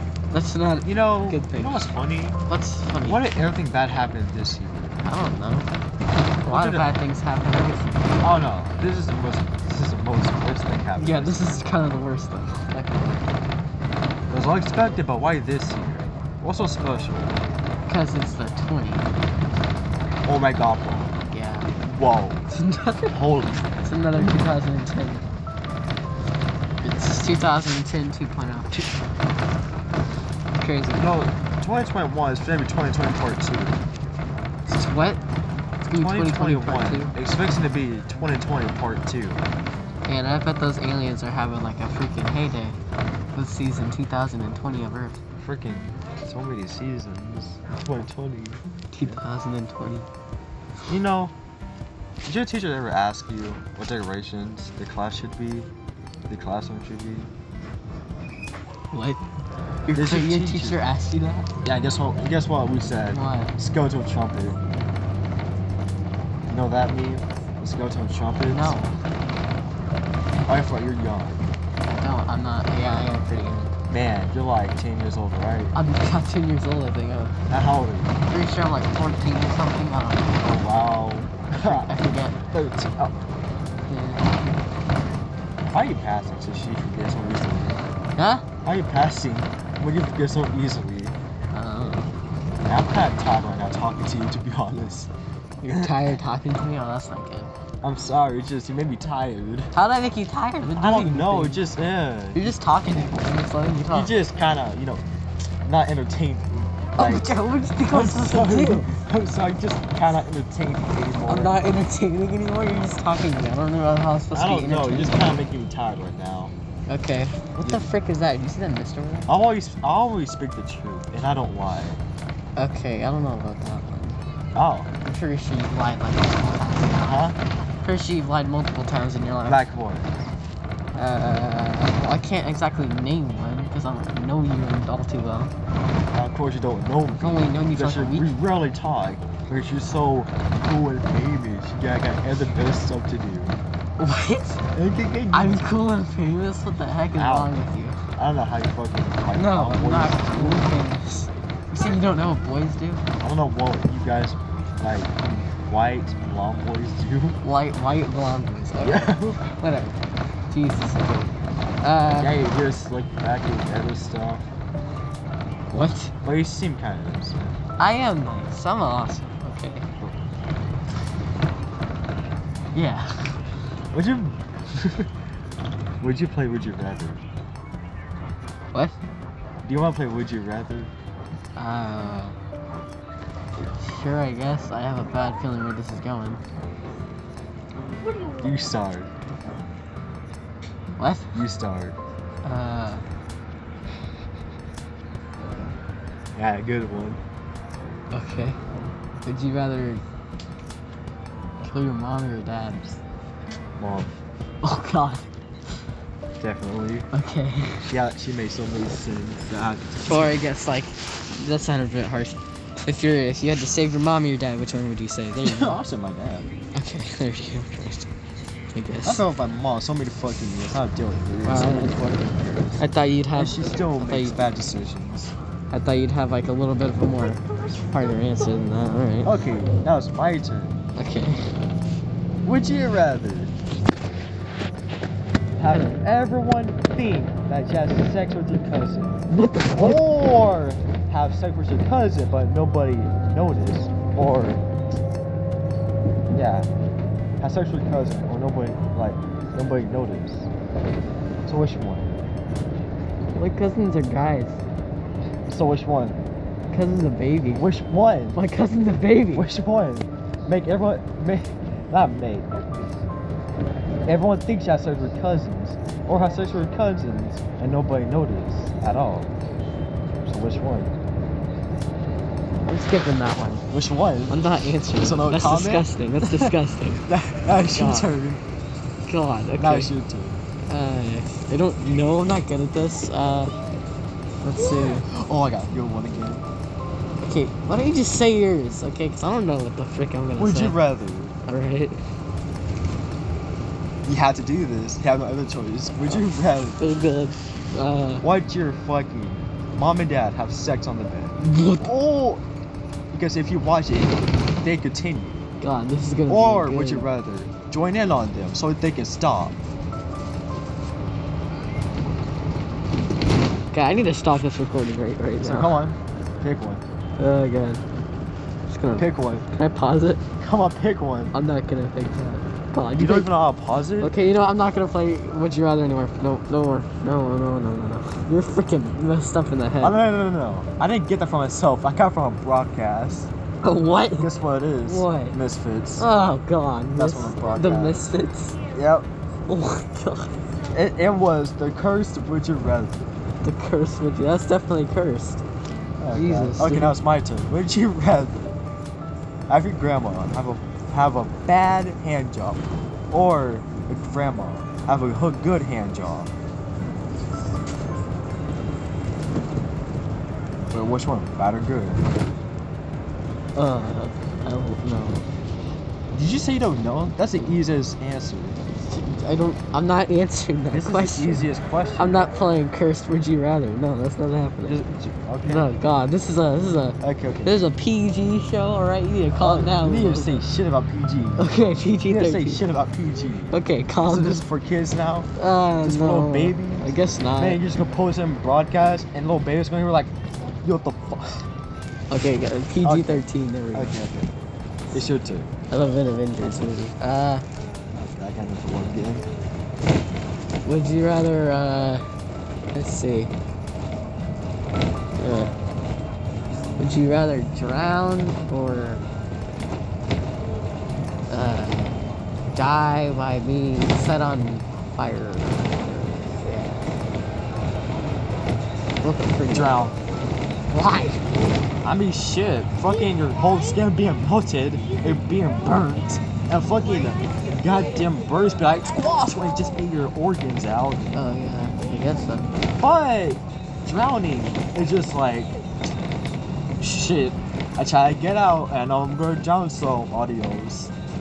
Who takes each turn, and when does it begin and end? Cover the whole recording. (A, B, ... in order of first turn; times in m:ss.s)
0:00.3-0:01.9 A
0:00.8-0:02.4 B
0:02.5-0:03.2 A
0:03.0-0:05.0 B
0:05.0-0:05.7 A
0:06.4-0:08.4 A
0:06.4-0:06.9 B
0:08.2-0:11.6 B
0:11.0-0:13.2 A
0:14.3-0:17.4 B
0:17.9-0:19.4 A
0:20.2-0:21.1 B
0:21.3-0:21.7 A
0:21.8-0:22.5 B
0:22.5-0:23.2 A
0:23.1-0:23.7 B
0:23.8-0:25.2 A
0:26.8-0:28.9 A
0:30.6-0:31.2 A
0:31.0-0:33.8 B
0:34.7-0:35.2 A
0:35.8-0:37.1 A
0:36.0-0:39.4 B
0:40.1-0:42.8 A
0:43.4-0:45.2 A
0:45.4-0:49.2 B
0:48.9-0:50.1 A
0:50.9-0:51.4 B
0:52.2-0:55.7 B
0:56.3-0:57.3 B
0:58.9-0:59.2 A
0:59.9-1:01.5 A
0:59.9-1:00.8 B
1:01.6-1:04.6 B
1:03.1-1:03.5 A
1:06.5-1:08.8 B
1:08.5-1:09.0 A
1:10.5-1:11.4 B
1:11.9-1:13.7 A
1:13.9-1:15.8 B
1:15.7-1:17.4 A
1:17.5-1:18.2 B
1:18.3-1:20.5 A
1:20.4-1:23.2 B
1:21.6-1:22.4 A
1:23.9-1:24.6 A
1:25.7-1:27.8 B
1:28.2-1:28.4 A
1:28.6-1:31.2 B
1:31.5-1:32.1 A
1:32.6-1:35.1 B
1:35.6-1:37.5 A
1:35.7-1:36.2 B
1:37.8-1:39.7 B
1:39.7-1:41.6 A
1:40.8-1:42.5 B
1:42.3-1:44.2 A
1:43.9-1:45.0 B
1:45.6-1:47.3 B
1:47.0-1:48.9 A
1:47.9-1:51.7 B
1:51.2-1:55.4 A
1:54.3-1:56.5 B
1:56.9-1:59.3 A
1:57.6-1:57.9 B
1:59.3-2:02.0 B
2:02.6-2:04.2 A
2:04.5-2:04.9 B
2:05.0-2:09.7 A
2:07.0-2:07.4 B
2:09.4-2:10.3 B
2:10.9-2:15.5 A
2:16.1-2:23.6 B
2:17.2-2:18.4 A
2:24.0-2:24.6 A
2:24.7-2:25.8 B
2:25.3-2:28.0 A
2:27.1-2:27.6 B
2:28.2-2:30.7 B
2:29.3-2:33.0 A
2:33.2-2:37.4 B
2:37.4-2:40.0 A
2:38.8-2:39.4 B
2:40.5-2:42.4 A
2:42.1-2:44.5 B
2:45.7-2:46.1 A
2:46.2-2:47.6 B
2:47.8-2:49.9 A
2:52.7-2:53.4 A
2:53.9-2:55.1 B
2:56.0-2:57.2 B
2:59.6-3:00.9 B
3:01.6-3:02.4 A
3:03.6-3:06.4 A
3:08.4-3:09.1 B
3:11.0-3:11.3 A
3:11.3-3:12.0 B
3:12.4-3:13.0 A
3:16.4-3:17.2 B
3:18.1-3:18.6 A
3:19.2-3:20.0 A
3:21.6-3:23.0 A
3:23.8-3:24.1 B
3:24.6-3:25.3 A
3:26.4-3:27.1 B
3:27.1-3:27.8 A
3:27.8-3:30.4 B
3:30.0-3:35.8 A
3:35.4-3:36.5 B
3:36.8-3:38.1 A
3:38.7-3:39.2 A
3:39.0-3:42.8 B
3:41.4-3:42.0 A
3:42.8-3:44.4 A
3:43.3-3:45.3 B
3:45.7-3:49.4 A
3:49.2-3:50.8 B
3:51.0-3:51.4 A
3:52.4-3:53.5 B
3:55.6-3:59.2 B
3:55.7-3:56.0 A
3:59.3-4:00.0 A
3:59.7-4:04.6 B
4:06.3-4:06.7 B
4:07.4-4:10.5 B
4:11.5-4:12.1 B
4:13.3-4:14.6 A
4:15.5-4:16.2 B
4:16.7-4:17.7 A
4:17.5-4:18.4 B
4:18.3-4:19.5 A
4:19.3-4:22.5 B
4:24.1-4:29.4 B
4:30.2-4:30.9 B
4:32.7-4:33.7 A
4:33.7-4:36.6 B
4:34.3-4:37.1 A
4:37.1-4:38.4 B
4:37.6-4:38.1 A
4:39.0-4:39.9 A
4:39.6-4:40.4 B
4:40.7-4:43.5 A
4:44.4-4:45.1 A
4:45.1-4:46.5 B
4:47.2-4:50.8 A
4:50.4-4:51.4 B
4:51.5-4:52.0 A
4:54.0-4:56.8 B
4:56.8-4:58.2 A
4:58.2-5:02.4 B
5:01.4-5:01.9 A
5:03.1-5:05.4 B
5:05.6-5:07.1 A
5:06.3-5:09.6 B
5:13.7-5:15.8 A
5:15.4-5:16.8 B
5:17.2-5:17.8 A
5:18.7-5:20.2 A
5:19.0-5:19.5 B
5:20.4-5:21.3 B
5:21.3-5:23.3 A
5:22.9-5:24.2 B
5:24.0-5:30.0 A
5:29.8-5:33.3 B
5:33.6-5:34.3 A
5:34.2-5:36.1 B
5:34.8-5:35.4 A
5:36.0-5:38.6 A
5:36.9-5:38.1 B
5:38.7-5:39.1 B
5:39.5-5:40.3 A
5:40.7-5:43.1 B
5:43.4-5:45.4 A
5:46.0-5:48.4 B
5:46.1-5:47.0 A
5:49.5-5:56.3 B
6:00.7-6:02.0 B
6:03.6-6:05.2 A
6:06.1-6:08.6 B
6:08.8-6:14.8 A
6:10.7-6:12.3 B
6:14.6-6:15.7 B
6:15.4-6:20.4 A
6:17.0-6:17.6 B
6:19.3-6:21.5 B
6:21.4-6:22.6 A
6:22.0-6:25.3 B
6:23.5-6:24.4 A
6:25.4-6:27.6 A
6:25.8-6:31.5 B
6:32.1-6:34.0 A
6:32.8-6:34.3 B
6:34.9-6:35.5 B
6:35.7-6:37.4 A
6:36.4-6:36.8 B
6:37.9-6:39.3 B
6:40.6-6:42.0 A
6:42.7-6:43.3 A
6:45.2-6:45.5 A
6:46.8-6:49.0 A
6:51.3-6:52.0 A
6:52.5-6:56.8 A
6:59.0-6:59.8 A
6:59.5-7:00.0 B
7:00.7-7:01.2 A
7:01.8-7:11.1 B
7:11.1-7:12.5 A
7:12.8-7:15.5 B
7:16.8-7:20.9 B